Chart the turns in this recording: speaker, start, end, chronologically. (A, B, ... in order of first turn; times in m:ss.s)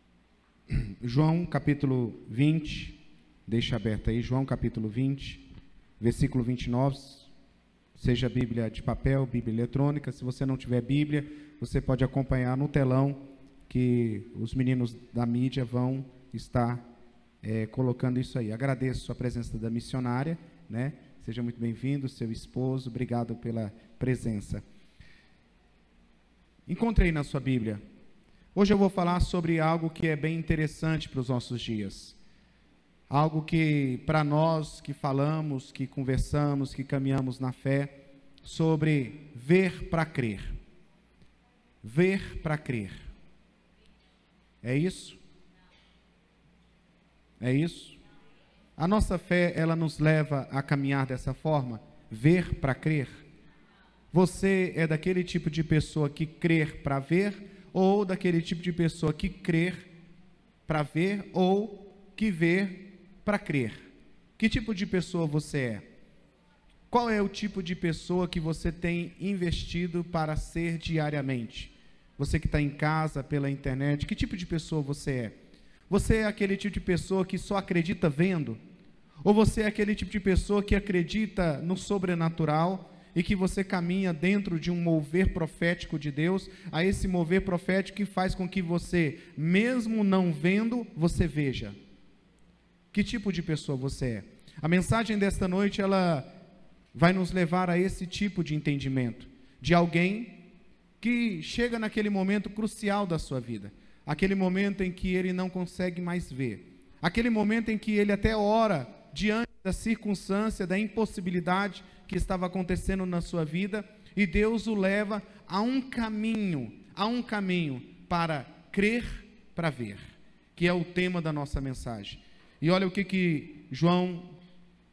0:00.7-0:05.4 A
0:06.0-0:07.3 A
0:08.0-0:16.8 A
0:17.4-0:24.6 A
0:26.7-0:27.8 A
0:28.5-0:32.2 A
0:33.1-0:40.6 A
0:41.8-0:43.1 A
0:44.6-0:45.2 A
0:47.4-0:48.0 A
0:48.8-0:53.2 A
0:54.1-0:59.9 A
1:00.7-1:05.8 A
1:06.9-1:15.4 A
1:15.9-1:18.6 A
1:19.2-1:31.8 A
1:32.9-1:36.3 A
1:36.9-1:40.4 A
1:41.0-2:04.4 A